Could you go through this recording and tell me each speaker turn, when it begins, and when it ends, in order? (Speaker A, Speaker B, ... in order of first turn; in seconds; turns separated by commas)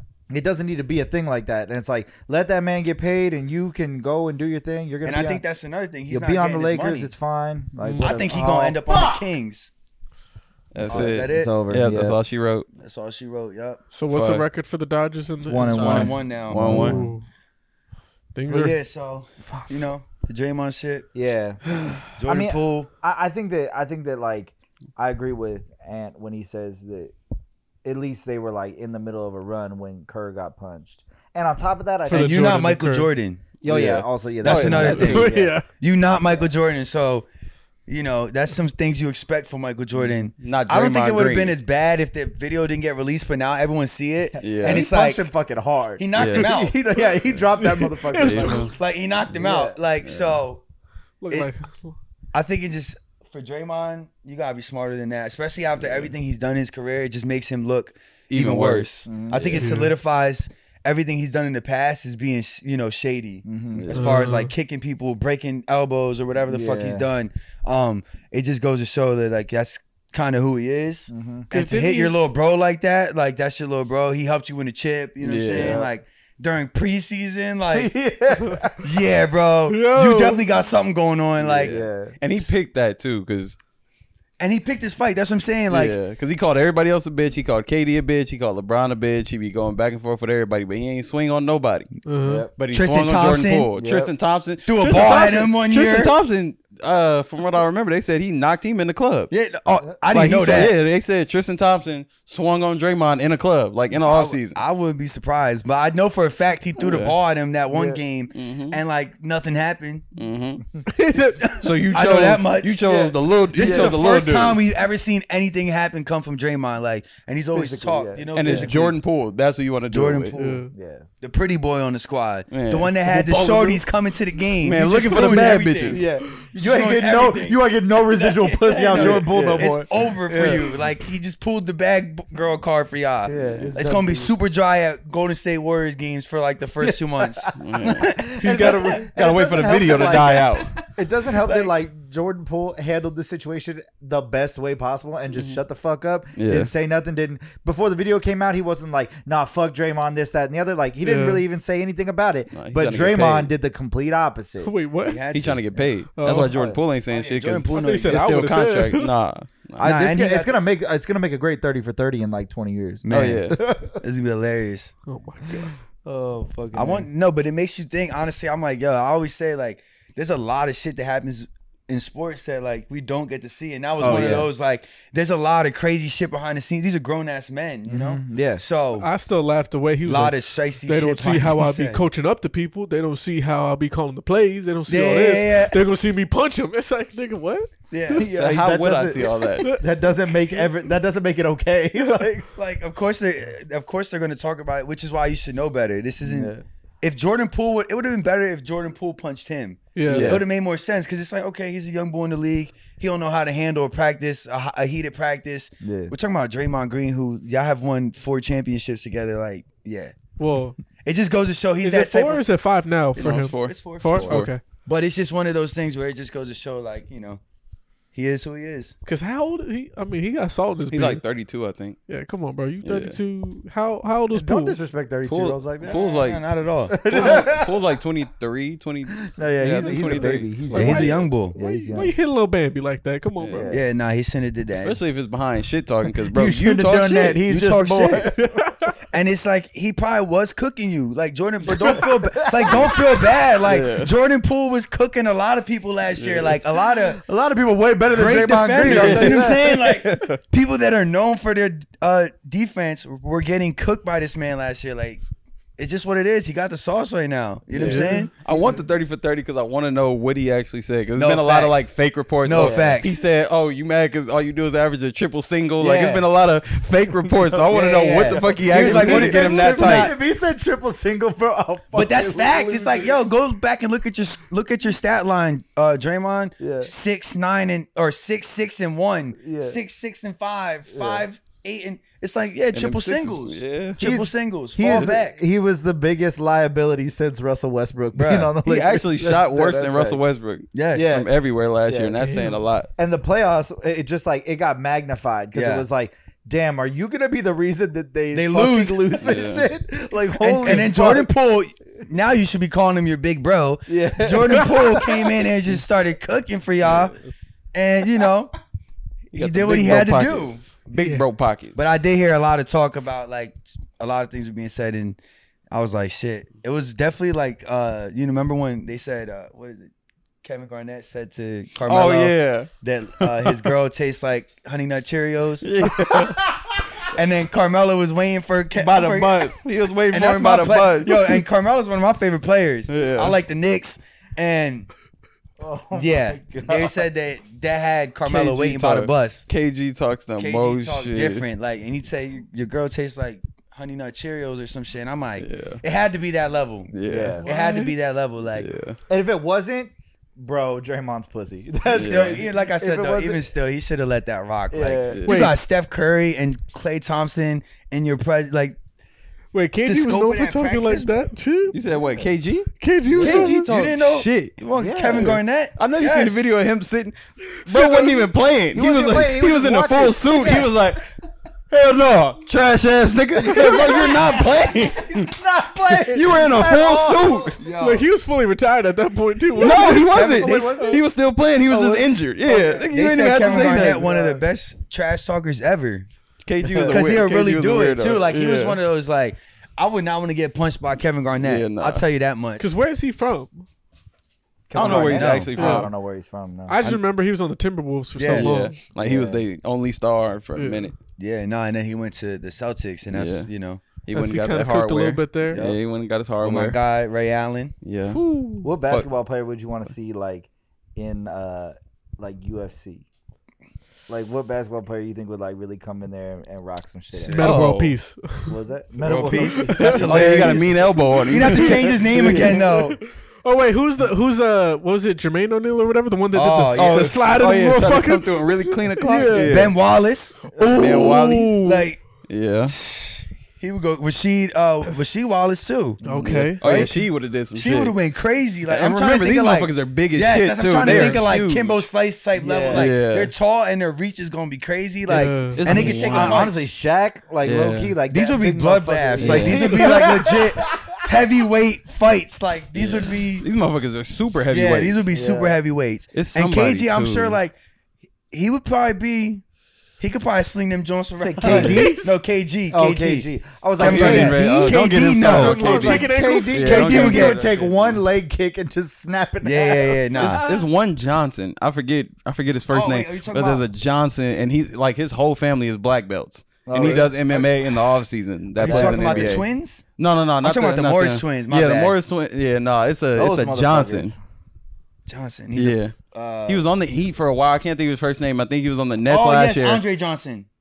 Speaker A: 0.3-5.4, Speaker B: 5.0-7.1, Speaker A: 6.1-9.2, Speaker B: 8.0-9.7, Speaker C: 10.7-12.7, Speaker B: 10.8-11.5, Speaker A: 10.8-12.2, Speaker B: 12.8-13.8, Speaker D: 13.9-17.2, Speaker C: 14.1-14.4, Speaker A: 15.4-17.1, Speaker B: 15.7-16.8, Speaker C: 15.7-17.0, Speaker D: 18.3-18.8, Speaker B: 18.5-21.1, Speaker A: 21.1-21.6, Speaker B: 22.2-22.9, Speaker A: 22.2-27.1, Speaker A: 27.8-32.7, Speaker D: 32.0-33.1, Speaker B: 32.1-33.5, Speaker A: 33.6-35.6, Speaker C: 33.6-35.3, Speaker B: 34.4-37.3, Speaker D: 34.7-35.7, Speaker B: 37.9-45.3, Speaker C: 40.4-41.6, Speaker A: 44.4-48.7, Speaker C: 44.4-44.9, Speaker B: 46.0-46.8, Speaker C: 46.1-46.5, Speaker D: 47.6-48.7, Speaker C: 48.2-48.7, Speaker B: 48.7-50.6, Speaker A: 49.3-49.8, Speaker C: 50.0-50.4, Speaker D: 51.2-52.0, Speaker B: 52.3-77.9, Speaker C: 58.3-59.8, Speaker A: 59.0-59.6, Speaker D: 59.6-59.9, Speaker A: 63.5-63.9, Speaker C: 63.7-64.2, Speaker D: 63.9-64.5, Speaker A: 66.5-67.0, Speaker A: 71.1-71.5, Speaker D: 71.5-72.2, Speaker C: 75.2-75.8, Speaker A: 75.4-75.9, Speaker A: 77.7-78.8, Speaker B: 78.8-81.8, Speaker D: 79.7-80.4, Speaker C: 81.4-83.6, Speaker A: 81.7-82.2, Speaker B: 84.4-86.0, Speaker C: 85.7-91.9, Speaker D: 92.0-92.5, Speaker A: 92.2-92.5, Speaker C: 92.5-99.3, Speaker B: 92.7-93.7, Speaker A: 93.8-94.1, Speaker B: 94.6-96.1, Speaker B: 99.3-100.8, Speaker A: 99.8-100.7, Speaker C: 100.1-104.6, Speaker B: 103.9-110.1, Speaker C: 106.8-107.1, Speaker A: 107.7-108.0, Speaker C: 108.3-108.8, Speaker C: 110.2-110.6, Speaker D: 110.8-111.7, Speaker B: 111.5-113.0, Speaker C: 111.6-114.6, Speaker A: 112.9-114.0, Speaker B: 113.5-119.0, Speaker A: 117.5-118.7, Speaker C: 118.3-120.3, Speaker B: 119.9-120.7, Speaker D: 120.3-120.7, Speaker A: 120.7-121.0, Speaker B: 121.2-140.8, Speaker C: 122.5-123.8, Speaker C: 124.6-126.1, Speaker A: 125.9-129.9, Speaker C: 128.9-129.8, Speaker D: 130.3-130.6, Speaker A: 133.2-134.3, Speaker C: 133.3-133.9, Speaker A: 136.8-154.7, Speaker C: 137.6-138.1, Speaker D: 138.4-139.1, Speaker C: 139.1-140.7, Speaker B: 141.3-141.7, Speaker C: 145.3-145.6, Speaker C: 146.4-146.7, Speaker D: 151.0-151.4, Speaker C: 152.5-153.5, Speaker D: 154.6-155.2, Speaker B: 155.0-155.7, Speaker C: 155.3-159.9, Speaker D: 156.2-156.6, Speaker A: 156.5-156.8, Speaker B: 157.1-158.3, Speaker D: 157.7-159.1, Speaker A: 159.8-164.0, Speaker B: 159.8-160.6, Speaker B: 163.0-164.9, Speaker C: 163.1-163.6, Speaker D: 165.1-165.7, Speaker A: 165.6-167.1, Speaker B: 166.7-179.1, Speaker A: 174.0-174.5, Speaker A: 177.9-178.6, Speaker D: 179.0-188.2, Speaker B: 180.0-182.0, Speaker B: 184.9-185.8, Speaker B: 187.9-188.2, Speaker A: 188.1-192.5, Speaker C: 188.3-189.7, Speaker B: 192.5-210.2, Speaker A: 196.2-196.6, Speaker D: 199.9-200.4, Speaker C: 200.1-200.4, Speaker A: 205.8-206.1, Speaker D: 210.4-210.8, Speaker B: 211.0-212.4, Speaker D: 211.8-214.6, Speaker B: 213.2-217.4, Speaker C: 213.2-214.5, Speaker B: 218.1-218.9, Speaker D: 219.1-221.2, Speaker C: 220.9-222.0, Speaker D: 222.1-224.8, Speaker C: 222.8-223.2, Speaker A: 224.3-226.0, Speaker C: 225.2-226.4, Speaker B: 225.8-227.3, Speaker A: 226.9-227.8, Speaker C: 227.1-231.2, Speaker D: 227.1-227.4, Speaker A: 229.2-232.1, Speaker D: 229.8-233.6, Speaker B: 229.9-231.6, Speaker C: 233.4-233.7, Speaker A: 233.5-233.8, Speaker B: 233.7-235.0, Speaker C: 234.7-237.4, Speaker A: 236.3-238.5, Speaker B: 237.4-238.3, Speaker D: 238.4-238.9, Speaker B: 239.1-247.2, Speaker A: 241.8-242.9, Speaker C: 243.6-244.1, Speaker C: 246.2-246.6, Speaker A: 247.1-249.7, Speaker B: 248.1-255.2, Speaker C: 248.8-250.4, Speaker B: 255.8-258.3, Speaker C: 257.7-270.1, Speaker D: 257.9-258.2, Speaker A: 258.5-258.8, Speaker B: 261.1-263.2, Speaker A: 262.5-263.0, Speaker A: 265.8-266.2, Speaker A: 267.4-273.2, Speaker B: 267.7-270.1, Speaker B: 271.9-285.4, Speaker A: 276.6-276.9, Speaker A: 279.4-279.8, Speaker A: 280.9-281.2, Speaker C: 282.7-284.0, Speaker A: 284.0-290.2, Speaker C: 284.9-285.2, Speaker B: 288.1-288.6, Speaker C: 288.6-292.9, Speaker B: 290.7-291.2, Speaker A: 290.9-291.3, Speaker A: 291.9-292.2, Speaker D: 292.2-292.6, Speaker A: 292.9-301.3, Speaker B: 295.5-295.8, Speaker B: 298.3-299.4, Speaker C: 299.2-299.6, Speaker B: 300.4-307.1, Speaker A: 303.9-305.3, Speaker B: 307.7-308.5, Speaker B: 309.3-310.6, Speaker C: 309.3-311.9, Speaker D: 311.0-311.2, Speaker B: 311.7-315.2, Speaker B: 315.7-319.9, Speaker B: 320.4-325.9, Speaker C: 321.9-323.7, Speaker C: 325.6-326.4, Speaker A: 326.1-326.5, Speaker B: 327.0-334.9, Speaker C: 328.7-331.4, Speaker C: 332.9-333.3, Speaker A: 335.6-337.0, Speaker B: 335.9-339.5, Speaker C: 338.2-341.4, Speaker B: 340.4-348.7, Speaker C: 345.4-345.8, Speaker C: 346.9-348.0, Speaker A: 347.1-347.4, Speaker C: 348.5-349.0, Speaker A: 349.1-353.4, Speaker C: 351.9-352.4, Speaker B: 351.9-358.8, Speaker A: 354.7-355.2, Speaker C: 355.1-355.5, Speaker D: 355.2-355.6, Speaker D: 359.5-361.8, Speaker B: 359.8-361.1, Speaker C: 361.7-364.5, Speaker A: 361.9-362.3, Speaker D: 362.8-363.7, Speaker B: 363.2-366.5, Speaker A: 364.7-365.3, Speaker C: 365.1-371.0, Speaker D: 367.6-368.3, Speaker A: 368.7-370.8, Speaker C: 371.7-375.3, Speaker A: 373.4-377.6, Speaker B: 373.4-374.5, Speaker C: 375.9-377.6, Speaker B: 377.6-378.1, Speaker D: 377.8-380.1, Speaker A: 379.5-381.0, Speaker C: 379.6-384.1, Speaker B: 379.6-381.0, Speaker A: 381.7-384.4, Speaker B: 382.5-386.1, Speaker C: 386.4-388.8, Speaker A: 386.6-387.0, Speaker B: 386.9-392.7, Speaker C: 391.4-392.0, Speaker D: 392.6-393.6, Speaker A: 394.7-396.8, Speaker C: 394.7-395.9, Speaker B: 394.8-395.5, Speaker D: 395.6-395.9, Speaker D: 396.7-398.8, Speaker B: 398.1-398.5, Speaker C: 398.3-400.9, Speaker A: 399.0-399.4, Speaker D: 400.6-400.9, Speaker B: 401.2-403.8, Speaker C: 403.1-403.5, Speaker C: 404.0-406.8, Speaker D: 404.1-405.6, Speaker B: 405.5-405.8, Speaker B: 406.4-407.7, Speaker C: 407.8-408.2, Speaker D: 408.1-408.7, Speaker A: 408.6-413.0, Speaker A: 414.1-417.5, Speaker B: 417.3-417.6, Speaker D: 417.3-418.6, Speaker C: 417.4-417.9, Speaker A: 418.5-420.0, Speaker B: 419.0-423.0, Speaker D: 419.4-420.1, Speaker C: 419.8-422.5, Speaker D: 421.1-429.7, Speaker A: 422.2-422.5, Speaker B: 426.3-427.2, Speaker C: 426.7-429.7, Speaker B: 429.4-432.0, Speaker D: 430.6-431.5, Speaker C: 430.6-432.7, Speaker B: 432.6-436.0, Speaker D: 436.0-436.9, Speaker C: 436.1-437.9, Speaker B: 436.6-437.0, Speaker B: 437.5-446.6, Speaker C: 438.7-441.9, Speaker A: 440.8-441.1, Speaker D: 440.9-441.1, Speaker A: 442.4-442.9, Speaker C: 442.7-443.3, Speaker D: 445.1-445.9, Speaker A: 445.1-451.0, Speaker C: 445.5-446.6, Speaker C: 447.4-447.9, Speaker B: 448.1-453.5, Speaker C: 449.2-449.9, Speaker C: 452.7-455.1, Speaker B: 454.5-457.5, Speaker A: 455.1-455.6, Speaker C: 456.1-457.4, Speaker B: 458.3-459.4, Speaker B: 460.0-466.0, Speaker A: 461.2-462.1, Speaker C: 461.4-461.8, Speaker D: 461.5-462.0, Speaker A: 462.7-470.3, Speaker C: 463.8-468.0, Speaker D: 465.2-467.2, Speaker B: 466.6-467.4, Speaker B: 469.4-470.4, Speaker C: 470.2-479.4, Speaker D: 470.2-470.6, Speaker B: 472.7-473.6, Speaker A: 476.6-477.1, Speaker B: 476.8-477.5, Speaker B: 478.6-479.9, Speaker A: 478.6-479.4, Speaker C: 480.0-484.1, Speaker B: 480.4-481.9, Speaker A: 483.1-484.2, Speaker B: 485.1-486.7, Speaker C: 485.6-485.9, Speaker C: 486.5-489.8, Speaker B: 489.0-490.5